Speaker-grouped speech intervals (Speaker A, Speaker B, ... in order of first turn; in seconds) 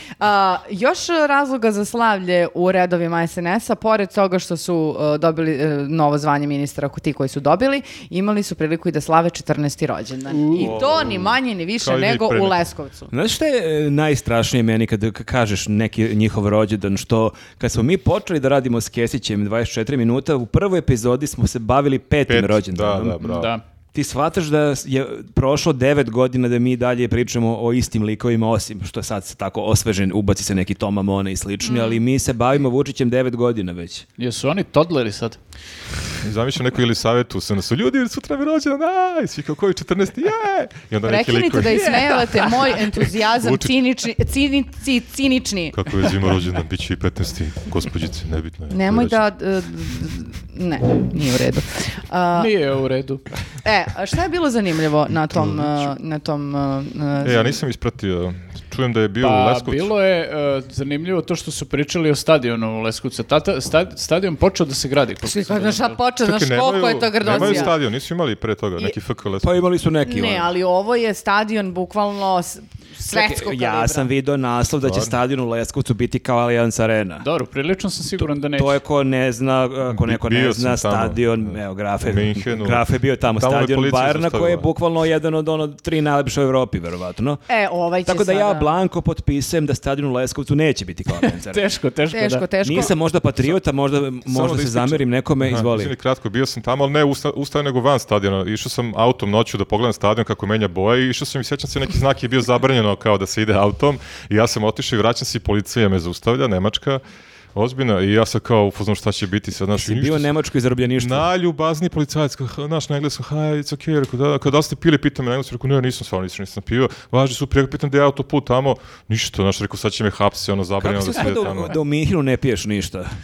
Speaker A: 0.2-13.1, 31.6-32.0, 41.0-45.9, 48.7-52.5, 53.6-57.6, 65.2-67.7, 70.0-74.1, 87.5-88.7, 92.1-92.9
Speaker B: 10.3-10.8, 23.2-23.6, 34.2-35.4, 52.3-53.2, 59.2-66.0, 77.2-78.8, 91.4-92.5
Speaker C: 10.6-11.2, 13.1-23.3, 23.9-34.0, 69.4-70.5, 73.1-77.3, 78.5-87.4, 88.0-91.6, 92.6-95.9, 109.7-111.3, 120.8-123.1
Speaker D: 11.8-12.6, 22.3-23.5, 36.2-43.7, 45.7-49.2, 55.3-55.7, 57.2-59.9, 66.2-69.7, 74.8-75.1, 79.9-82.8, 83.4-84.7, 94.3-107.0, 107.5-110.3, 111.0-121.8